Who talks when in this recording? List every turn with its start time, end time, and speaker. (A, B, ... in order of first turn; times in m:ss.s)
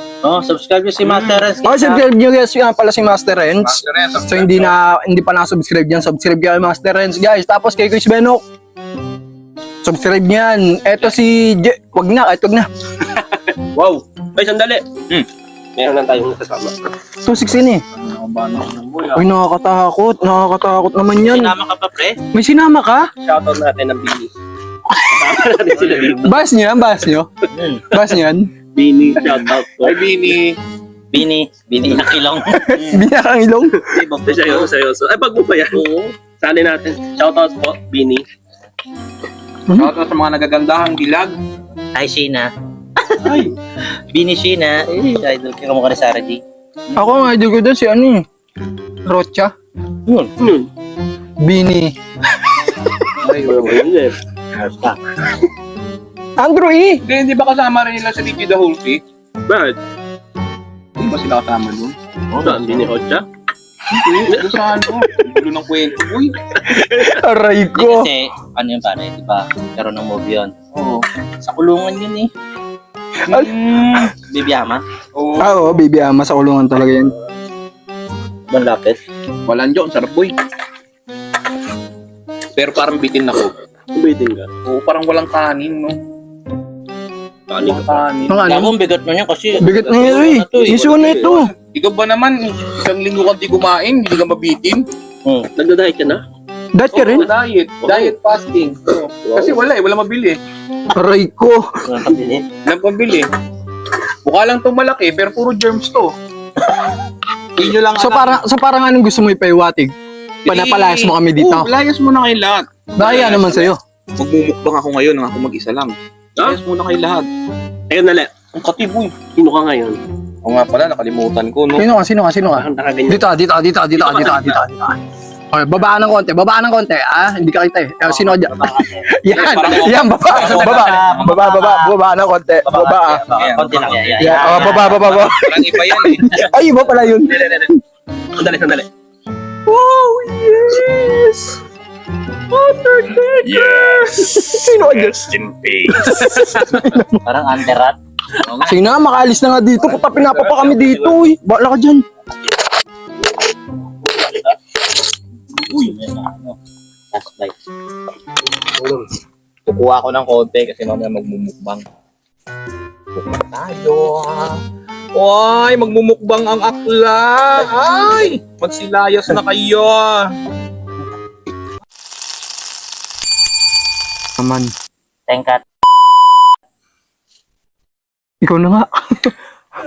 0:00.2-0:02.0 A
0:01.0-0:01.5 B
0:01.6-0:08.4 C
0:03.6-0:04.7 B
0:09.8-0:12.7 C
0:13.8-0:14.0 B
0:14.4-0:14.8 D
0:15.8-0:16.7 D
0:17.2-0:17.8 C
0:17.9-0:19.2 B
0:19.1-0:21.5 C
0:21.2-0:22.2 A
0:22.3-0:23.1 C
0:23.2-0:24.4 D
0:25.0-0:26.4 D
0:25.8-0:26.2 B
0:26.2-0:27.3 C
0:27.5-0:27.8 A
0:27.9-0:28.5 C
0:28.7-0:30.1 D
0:29.8-0:30.6 B
0:31.1-0:32.7 A
0:32.5-0:33.8 C
0:33.8-0:38.2 D
0:33.9-0:34.6 A
0:39.7-0:41.4 B
0:42.0-0:42.5 A
0:44.1-0:46.4 A
0:46.9-0:47.2 B
0:46.9-0:48.2 C
0:49.1-0:49.5 C
0:50.4-0:50.7 D
0:51.4-0:51.9 C
0:53.2-0:53.8 B
0:53.4-0:54.2 D
0:54.6-0:55.0 A
0:56.4-0:57.0 C
0:57.0-0:59.0 B
0:59.5-0:59.8 D
1:01.0-1:01.9 B
1:02.3-1:02.9 A
1:02.4-1:03.2 D
1:03.9-1:06.4 B
1:04.3-1:04.7 D
1:06.8-1:08.1 C
1:07.8-1:10.5 A
1:10.7-1:11.0 B
1:11.4-1:12.3 A
1:13.3-1:13.5 C
1:13.3-1:14.1 B
1:14.3-1:14.8 A
1:15.1-1:15.8 B
1:15.4-1:17.1 C
1:18.5-1:19.0 A
1:19.4-1:20.3 B
1:22.6-1:23.6 B
1:23.9-1:24.5 D
1:24.6-1:26.0 B
1:27.5-1:28.1 D
1:27.6-1:28.5 B
1:28.3-1:28.7 C
1:28.5-1:31.0 A
1:29.6-1:31.5 C
1:30.5-1:31.3 D
1:31.0-1:34.9 B
1:35.6-1:36.2 D
1:36.7-1:37.3 C
1:36.9-1:40.4 B
1:37.8-1:38.1 D
1:39.2-1:39.6 D
1:40.9-1:41.7 C
1:41.9-1:42.4 A
1:42.6-1:43.3 B
1:44.2-1:46.1 B
1:47.6-1:48.4 B
1:47.9-1:49.9 C
1:50.4-1:57.3 B
1:50.5-1:51.7 C
1:53.0-1:53.8 C
1:57.9-1:58.3 D
1:58.5-1:59.2 B
1:59.3-2:00.0 D
2:00.4-2:01.9 B
2:01.8-2:05.0 C
2:02.5-2:03.3 D
2:04.0-2:04.6 D
2:05.5-2:13.2 C
2:08.0-2:09.1 A
2:09.3-2:11.4 B
2:10.3-2:11.9 A
2:12.7-2:14.5 D
2:13.3-2:16.5 B
2:13.4-2:15.3 A
2:14.2-2:17.4 C
2:17.0-2:17.7 D
2:18.4-2:18.9 D
2:19.7-2:21.6 C
2:22.5-2:27.2 C
2:23.9-2:25.9 B
2:27.1-2:28.0 A
2:28.6-2:32.0 C
2:30.0-2:31.1 B
2:30.3-2:30.7 D
2:35.7-2:36.6 A
2:37.1-2:37.5 A
2:38.8-2:39.0 D
2:39.6-2:41.8 B
2:43.1-2:44.6 B
2:45.1-2:50.3 B
2:54.4-2:54.7 C
2:55.3-2:55.6 A
2:58.4-2:59.3 C